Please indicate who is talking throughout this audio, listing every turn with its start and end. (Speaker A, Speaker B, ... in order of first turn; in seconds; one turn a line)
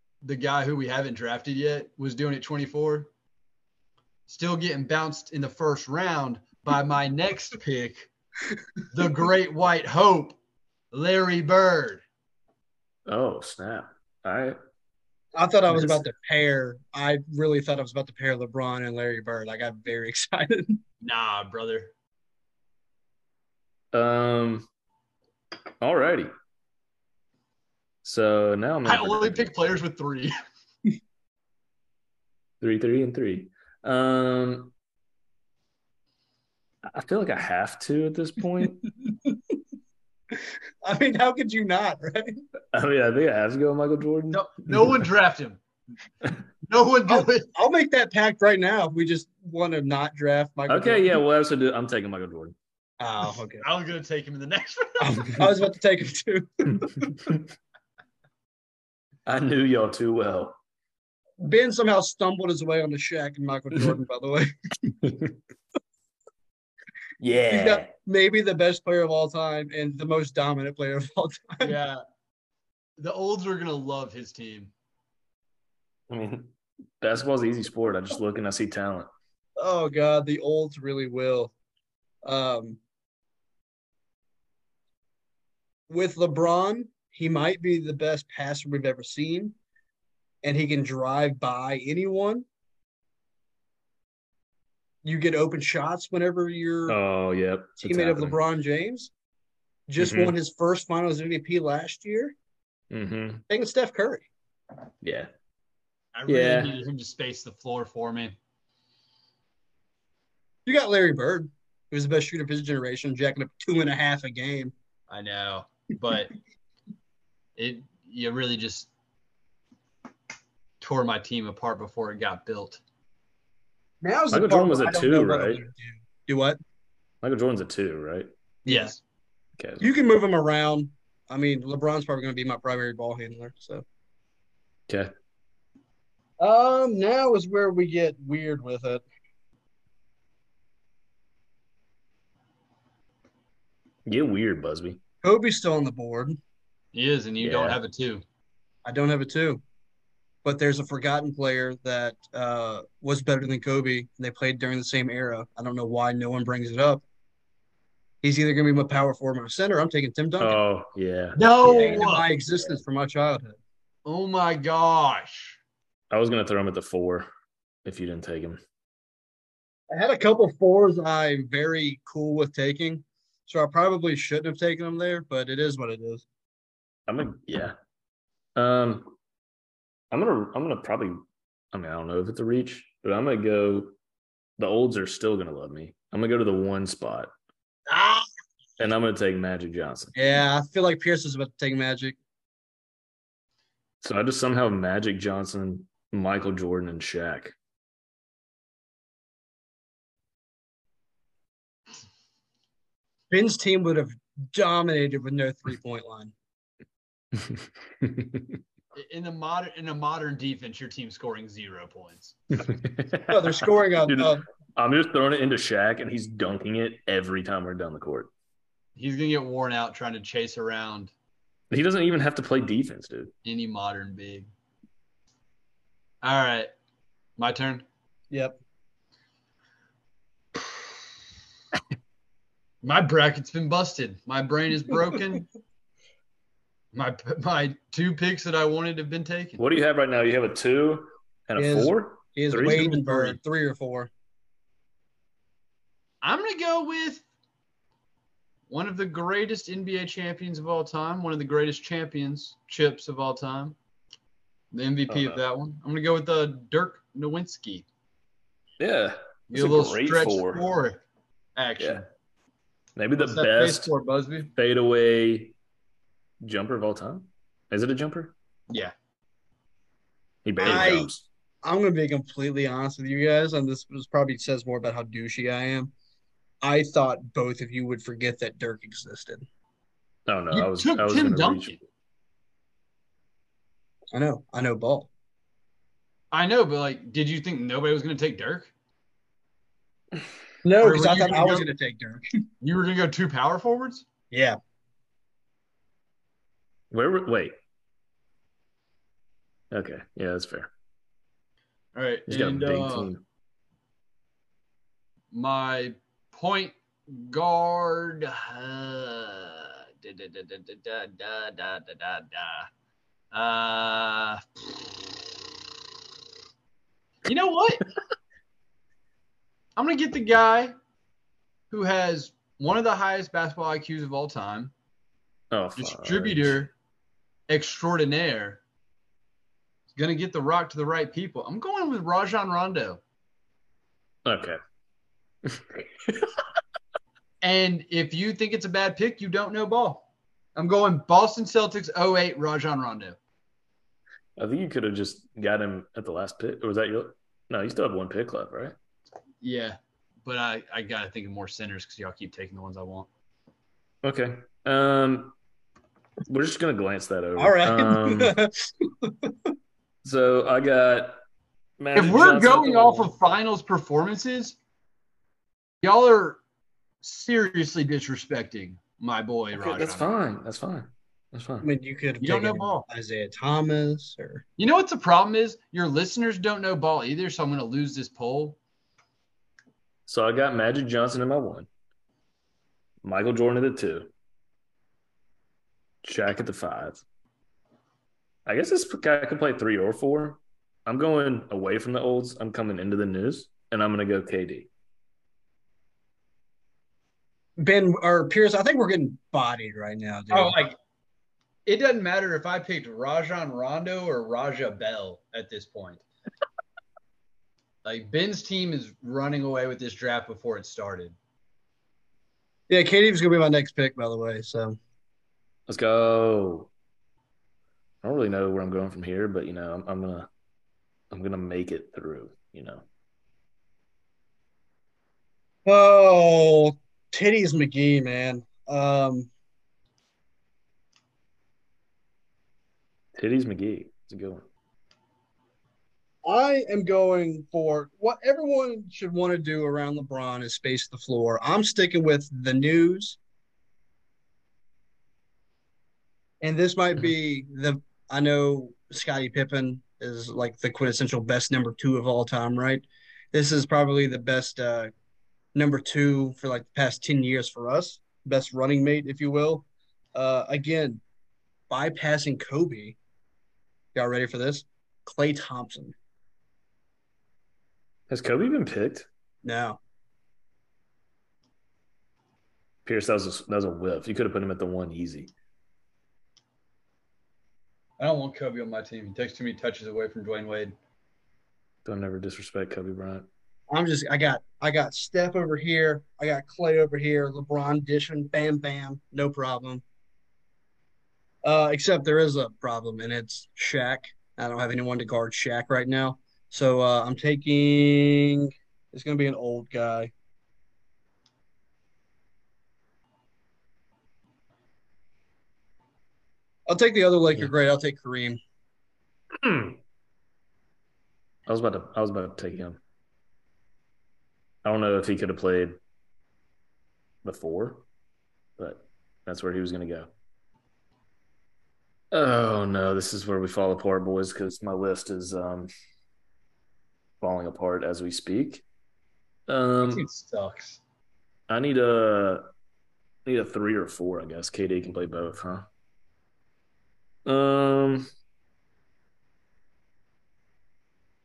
Speaker A: 0.2-3.1
Speaker A: 4.3-8.1
Speaker A: 8.9-10.4
Speaker A: 10.9-12.0
Speaker B: 13.1-14.6
Speaker C: 15.4-20.8
Speaker A: 21.0-21.9
Speaker B: 23.9-24.7
Speaker B: 25.8-26.3
Speaker B: 28.0-29.5
Speaker A: 28.9-30.3
Speaker B: 32.6-34.7
Speaker B: 36.9-38.8
Speaker C: 39.0-39.4
Speaker C: 40.8-42.4
Speaker B: 42.7-45.0
Speaker A: 44.3-45.6
Speaker A: 46.7-47.5
Speaker C: 47.1-51.2
Speaker B: 50.7-52.5
Speaker C: 53.0-53.6
Speaker A: 53.6-55.5
Speaker C: 55.0-57.3
Speaker B: 59.3-60.6
Speaker C: 61.4-64.5
Speaker B: 65.0-65.3
Speaker B: 67.2-67.9
Speaker C: 67.5-71.8
Speaker A: 71.6-72.0
Speaker A: 73.0-74.7
Speaker B: 76.1-79.1
Speaker C: 79.6-81.5
Speaker C: 82.2-82.8
Speaker C: 85.9-89.6
Speaker C: 90.4-92.5
Speaker C: 95.0-97.0
Speaker B: 96.9-98.4
Speaker C: 97.8-99.1
Speaker C: 99.9-102.3
Speaker B: 100.0-100.3
Speaker B: 102.9-103.4
Speaker C: 103.5-104.3
Speaker B: 105.0-105.3
Speaker A: 106.1-108.4
Speaker B: 106.3-106.7
Speaker C: 110.7-114.7
Speaker A: 115.1-116.3
Speaker A: 117.6-118.9
Speaker A: 120.8-122.8
Speaker C: 124.0-126.6
Speaker B: 124.3-125.6
Speaker B: 127.2-128.3
Speaker C: 128.6-128.9
Speaker A: 128.7-129.0
Speaker B: 129.6-129.8
Speaker C: 129.8-133.8
Speaker C: 136.4-139.0
Speaker B: 144.1-145.0
Speaker C: 145.2-146.4
Speaker A: 146.9-148.2
Speaker B: 147.4-147.8
Speaker C: 148.8-149.6
Speaker C: 150.4-157.0
Speaker C: 158.2-160.6
Speaker B: 160.4-162.1
Speaker A: 161.4-162.3
Speaker C: 161.6-163.6
Speaker A: 164.1-165.6
Speaker B: 166.1-167.3
Speaker B: 167.8-168.6
Speaker C: 169.9-176.2
Speaker B: 177.1-177.8
Speaker B: 178.6-179.1
Speaker B: 180.1-181.2
Speaker B: 181.7-183.9
Speaker B: 184.6-187.3
Speaker C: 187.9-188.3
Speaker B: 188.8-190.1
Speaker C: 190.2-192.2
Speaker B: 194.0-197.6
Speaker C: 203.3-206.3
Speaker B: 207.3-208.6
Speaker A: 208.9-212.4
Speaker B: 212.6-218.3
Speaker C: 213.3-214.4
Speaker A: 219.0-221.1
Speaker B: 221.7-223.3
Speaker A: 223.4-224.5
Speaker A: 226.2-226.7
Speaker A: 227.4-227.8
Speaker C: 228.3-228.6
Speaker A: 232.8-235.4
Speaker A: 236.9-239.6
Speaker B: 239.6-243.2
Speaker C: 241.6-244.1
Speaker A: 242.8-243.3
Speaker A: 246.2-247.2
Speaker A: 248.7-253.8
Speaker A: 254.7-257.9
Speaker B: 255.1-255.4
Speaker B: 258.8-260.6
Speaker A: 259.5-261.0
Speaker A: 261.6-262.1
Speaker B: 262.9-263.9
Speaker A: 263.2-264.5
Speaker B: 264.6-265.6
Speaker B: 266.4-268.4
Speaker B: 270.4-271.3
Speaker C: 270.6-271.1
Speaker C: 271.6-275.9
Speaker C: 276.6-279.4
Speaker B: 280.3-281.8
Speaker A: 280.5-281.8
Speaker C: 284.1-285.1
Speaker A: 286.3-288.7
Speaker C: 290.6-292.2
Speaker A: 290.8-291.7
Speaker A: 292.6-294.1
Speaker C: 294.3-294.6
Speaker B: 296.9-297.5
Speaker B: 299.7-300.7
Speaker A: 301.9-303.1
Speaker B: 302.3-303.2
Speaker A: 305.3-312.7
Speaker A: 313.3-314.9
Speaker A: 317.2-317.8
Speaker A: 319.8-320.7
Speaker A: 321.7-324.7
Speaker B: 325.5-326.6
Speaker A: 325.8-326.7
Speaker A: 327.5-328.6
Speaker A: 329.9-333.0
Speaker B: 334.2-334.6
Speaker B: 335.4-336.3
Speaker A: 337.4-340.1
Speaker A: 340.6-343.2
Speaker B: 344.4-348.8
Speaker A: 349.4-353.1
Speaker B: 354.0-355.4
Speaker B: 356.3-358.3
Speaker C: 357.4-359.3
Speaker B: 360.0-361.2
Speaker B: 361.8-363.1
Speaker A: 361.9-364.6
Speaker A: 365.8-366.4
Speaker A: 367.0-370.1
Speaker B: 369.5-371.7
Speaker C: 371.6-374.4
Speaker A: 372.2-372.9
Speaker A: 374.6-378.6
Speaker B: 380.1-381.7
Speaker B: 383.0-384.1
Speaker B: 386.0-387.0
Speaker B: 388.5-394.7
Speaker C: 397.6-400.6
Speaker A: 400.3-400.8
Speaker A: 401.7-406.1
Speaker A: 407.8-411.1
Speaker C: 412.7-414.8
Speaker B: 415.7-416.7
Speaker B: 418.0-420.3
Speaker B: 421.1-422.8
Speaker C: 425.7-429.3
Speaker B: 433.2-434.4
Speaker C: 436.2-443.2
Speaker C: 446.4-454.9
Speaker C: 455.6-461.0
Speaker C: 461.7-463.0
Speaker C: 463.9-465.9
Speaker B: 468.1-469.1
Speaker C: 469.4-469.8
Speaker B: 472.9-475.3
Speaker A: 478.0-480.8
Speaker B: 481.9-483.3
Speaker C: 483.7-489.8
Speaker C: 491.4-500.1
Speaker C: 506.7-508.4
Speaker B: 509.4-509.8
Speaker B: 511.5-512.8
Speaker B: 514.6-515.8
Speaker B: 517.2-517.9
Speaker B: 518.6-520.1
Speaker B: 522.1-525.7
Speaker B: 527.2-528.6
Speaker B: 529.5-530.1
Speaker A: 529.8-530.8
Speaker B: 531.5-532.5
Speaker B: 533.3-535.7
Speaker B: 537.3-538.1